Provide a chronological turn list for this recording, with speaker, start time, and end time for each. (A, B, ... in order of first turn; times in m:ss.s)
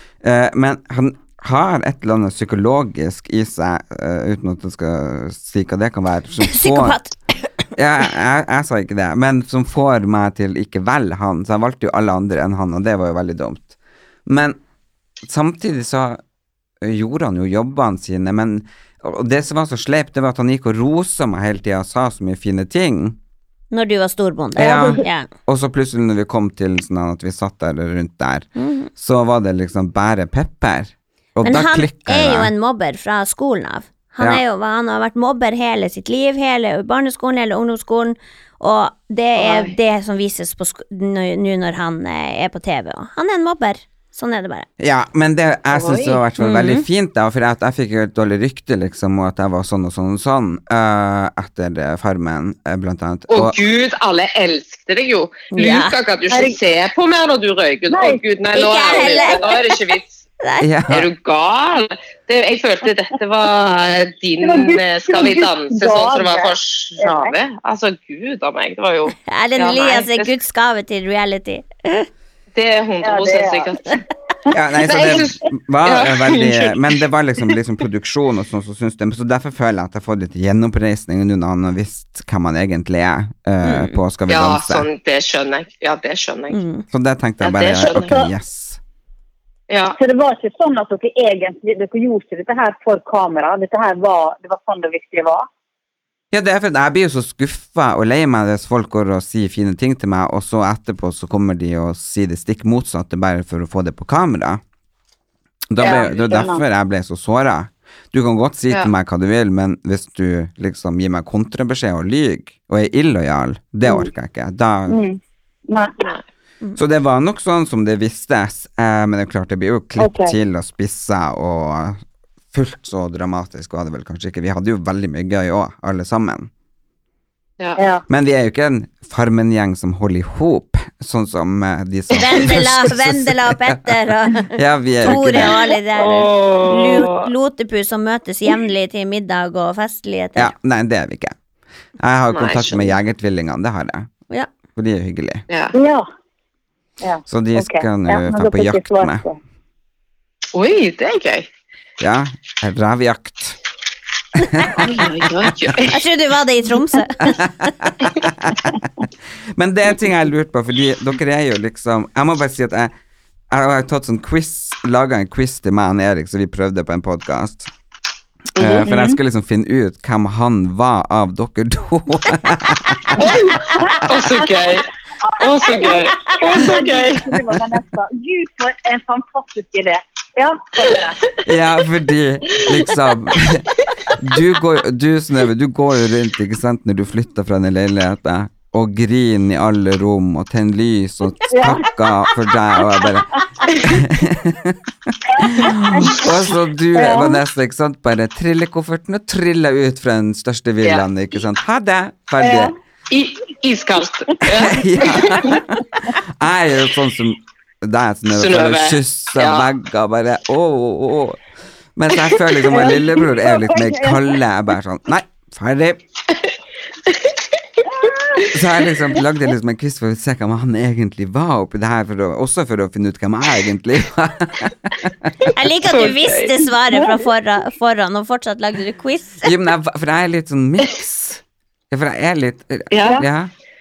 0:00.2-0:07.0 A
0:06.4-0:07.2 B
0:07.8-0:13.7 A
0:14.2-0:14.6 A
0:15.2-0:16.2 A
0:16.8-0:23.2 A
0:23.7-0:25.3 B
0:24.6-0:32.5 A
0:28.6-0:28.9 B
0:31.4-0:44.7 B
0:39.3-0:39.7 C
0:44.8-0:53.6 A
0:45.7-0:46.2 C
0:46.4-0:46.8 B
0:53.3-1:00.2 C
0:55.5-0:55.9 B
0:56.3-0:56.6 D
0:57.9-0:58.2 D
0:58.5-0:59.6 B
0:58.9-0:59.4 D
1:00.4-1:00.7 B
1:00.6-1:01.1 A
1:00.9-1:10.3 C
1:04.4-1:07.3 D
1:09.3-1:12.1 B
1:12.5-1:13.9 C
1:13.0-1:13.9 D
1:14.5-1:24.8 A
1:14.8-1:16.8 C
1:23.6-1:24.0 B
1:24.3-1:26.6 C
1:26.5-1:26.8 B
1:26.9-1:28.8 A
1:27.4-1:28.2 C
1:27.8-1:28.3 D
1:29.7-1:30.0 C
1:30.0-1:35.5 D
1:36.3-1:44.6 A
1:45.7-1:55.0 A
1:45.8-1:46.6 D
1:54.9-1:56.0 D
1:56.8-2:02.0 A
2:00.0-2:00.3 D
2:02.5-2:06.5 A
2:07.8-2:08.0 D
2:08.1-2:15.6 A
2:12.2-2:20.5 B
2:15.1-2:17.3 C
2:20.4-2:21.3 A
2:22.0-2:24.1 A
2:22.3-2:22.9 C
2:24.8-2:25.4 A
2:25.7-2:26.0 D
2:27.0-2:29.4 D
2:27.2-2:29.2 A
2:30.5-2:31.5 C
2:32.0-2:33.6 A
2:34.4-2:35.5 A
2:34.8-2:36.0 C
2:35.9-2:37.7 B
2:37.2-2:39.0 A
2:39.6-2:42.9 A
2:43.5-2:47.7 A
2:48.6-2:48.8 C
2:48.6-2:53.2 A
2:48.9-2:49.2 D
2:53.2-2:54.8 C
2:55.2-3:01.2 D
2:55.4-2:57.2 C
3:01.4-3:14.8 A
3:11.5-3:11.9 D
3:15.4-3:22.7 A
3:15.4-3:16.1 D
3:17.0-3:17.4 D
3:22.4-3:22.7 D
3:23.1-3:25.6 C
3:24.4-3:31.4 A
3:28.3-3:29.7 C
3:32.0-3:36.0 A
3:32.3-3:32.7 C
3:32.7-3:34.2 D
3:37.1-3:37.4 C
3:37.8-3:38.4 D
3:38.5-3:45.5 A
3:45.5-3:49.5 B
3:45.8-3:46.6 C
3:49.4-3:53.5 A
3:52.9-3:53.2 C